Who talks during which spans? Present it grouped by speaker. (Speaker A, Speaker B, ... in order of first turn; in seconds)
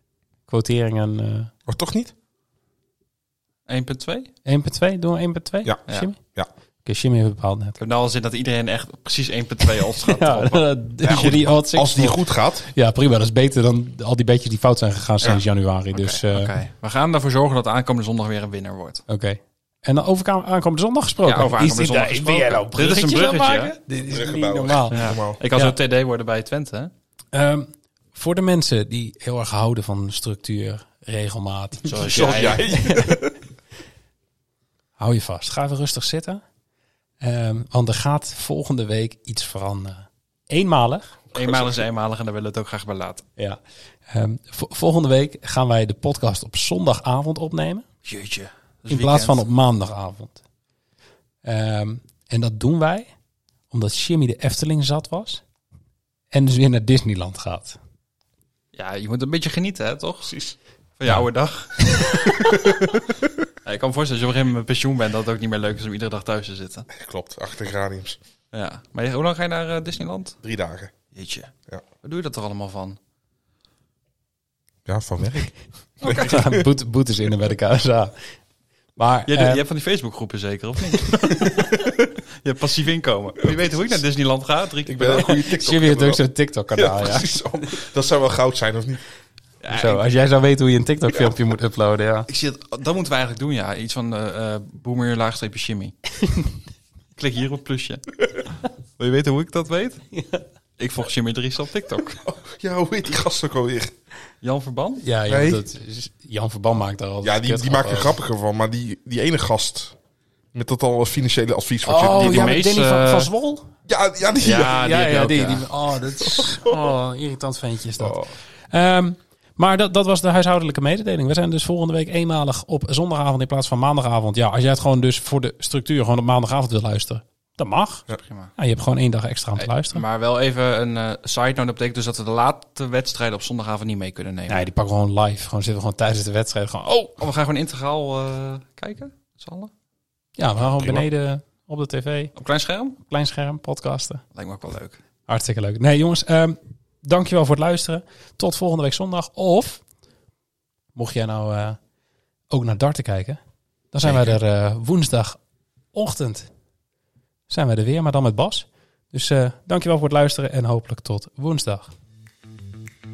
Speaker A: 0.5-1.5, 4.5-6.2, 6.8-7.8, 10.1-16.5, 19.1-25.0, 27.3-33.3, 35.0-36.4, 37.2-41.2, 43.4-47.9, 48.9-50.4, 51.4-53.1, 53.7-55.4, 56.3-57.8, 76.0-78.1, 79.0-79.6, 85.2-87.3, 89.7-92.3, 100.1-100.4, 105.0-108.1, 111.8-113.7, 114.6-128.1, 128.6-130.0, 134.5-137.2, 140.4-142.3, 143.1-144.2, 145.3-149.8, 150.9-151.8, 152.5-153.4, 153.9-155.4, 155.9-156.5, 157.5-161.9
Speaker B: 1.7-2.1, 11.0-12.7, 24.1-25.4, 32.0-33.3, 41.3-41.8, 60.3-60.5, 62.5-63.0, 66.9-68.2, 70.4-70.9, 74.9-76.7, 81.5-82.0, 84.9-86.2, 86.8-89.0, 102.2-103.9, 105.3-105.6, 107.2-110.0, 110.5-112.6, 113.9-114.9, 116.2-116.8, 118.0-118.3, 140.7-141.1
Speaker C: 3.7-4.3, 7.8-11.4, 15.2-19.0, 21.2-23.7, 24.9-26.9, 31.9-32.6, 41.3-43.3, 48.0-49.4, 58.7-60.4, 61.0-62.5, 63.6-66.9, 68.5-70.4, 71.1-71.5, 72.0-73.0, 76.0-76.4, 79.3-81.7, 82.4-85.7, 89.6-90.0, 92.3-96.0, 97.2-98.1, 99.0-100.0, 100.8-102.2, 104.4-105.0, 112.1-113.3, 114.4-115.7, 128.2-128.5, 129.9-134.6, 137.2-139.7, 142.3-143.0, 144.3-145.0, 154.0-154.4